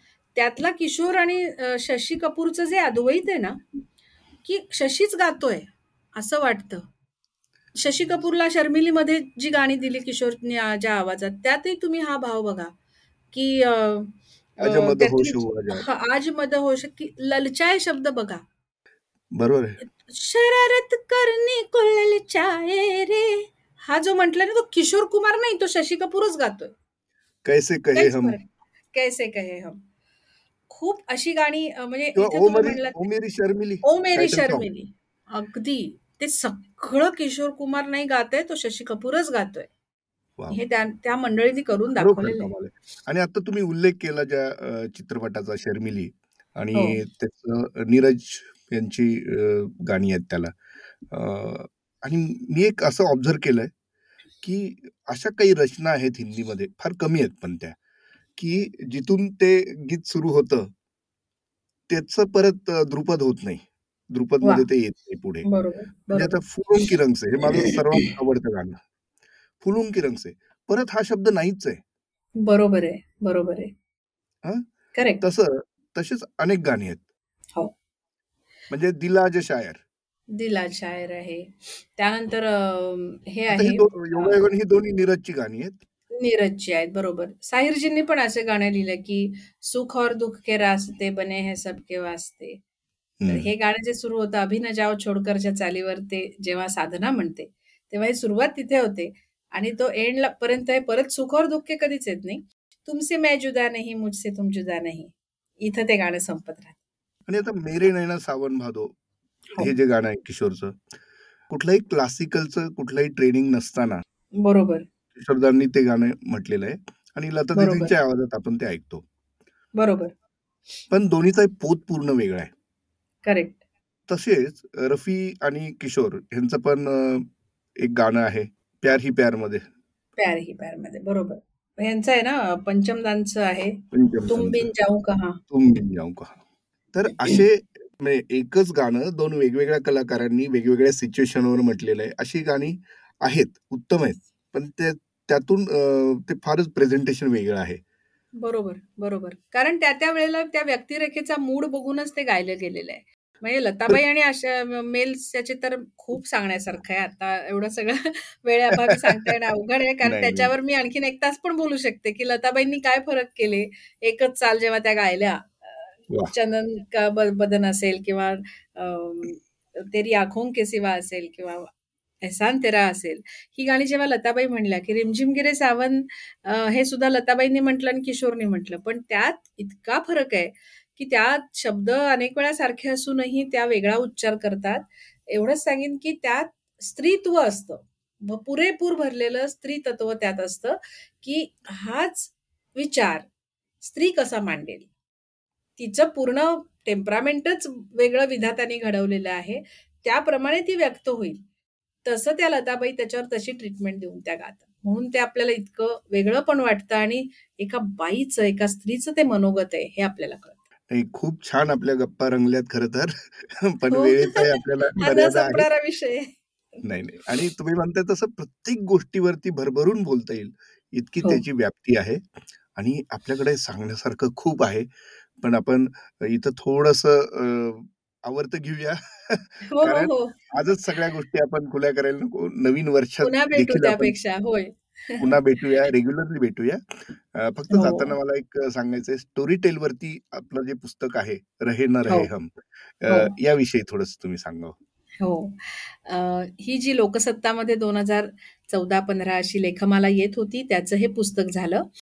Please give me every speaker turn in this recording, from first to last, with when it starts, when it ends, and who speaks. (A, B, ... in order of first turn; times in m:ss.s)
0:00.3-0:03.6 A
0:04.4-0:06.8 A
0:07.7-0:12.7 A
0:13.3-0:18.4 A
0:14.6-0:15.8 B
0:19.3-0:19.8 B
0:20.0-0:26.7 A
0:27.4-0:28.4 B
0:28.0-0:29.8 A
0:30.7-0:33.1 A
0:32.2-0:34.7 B
0:33.8-0:39.7 A
0:40.5-0:42.5 A
0:42.0-0:50.5 B
0:51.1-0:53.7 B
0:54.4-0:57.8 B
0:58.4-1:00.7 B
1:01.9-1:05.5 B
1:05.4-1:06.3 A
1:06.1-1:08.8 B
1:09.6-1:11.8 B
1:12.4-1:13.7 A
1:14.9-1:15.2 A
1:15.2-1:17.0 B
1:18.7-1:19.8 B
1:20.3-1:24.4 A
1:23.5-1:25.8 B
1:26.1-1:32.6 A
1:33.2-1:33.5 B
1:33.3-1:46.8 A
1:47.3-1:48.9 B
1:49.6-1:50.8 B
1:51.5-1:54.0 B
1:54.4-1:54.8 A
1:55.1-1:59.0 B
1:57.5-1:57.9 A
1:59.8-2:00.1 A
2:00.9-2:02.5 B
2:03.2-2:03.6 A
2:04.1-2:07.3 B
2:07.8-2:09.6 B
2:10.2-2:15.4 A
2:13.9-2:14.7 B
2:15.5-2:16.4 B
2:16.9-2:27.8 B
2:28.4-2:51.7 A
2:38.9-2:39.3 B
2:40.0-2:40.5 B
2:52.2-3:13.2 A
3:13.8-3:14.9 A
3:15.8-3:21.4 A
3:22.0-3:30.6 A
3:30.9-3:35.7 B
3:33.9-3:36.3 A
3:36.8-3:42.2 B
3:42.8-3:44.9 B
3:45.4-3:54.1 B
3:49.7-3:50.4 A
3:53.2-3:55.3 A
3:55.2-4:04.8 B
3:57.7-3:58.2 A
4:05.2-4:11.8 A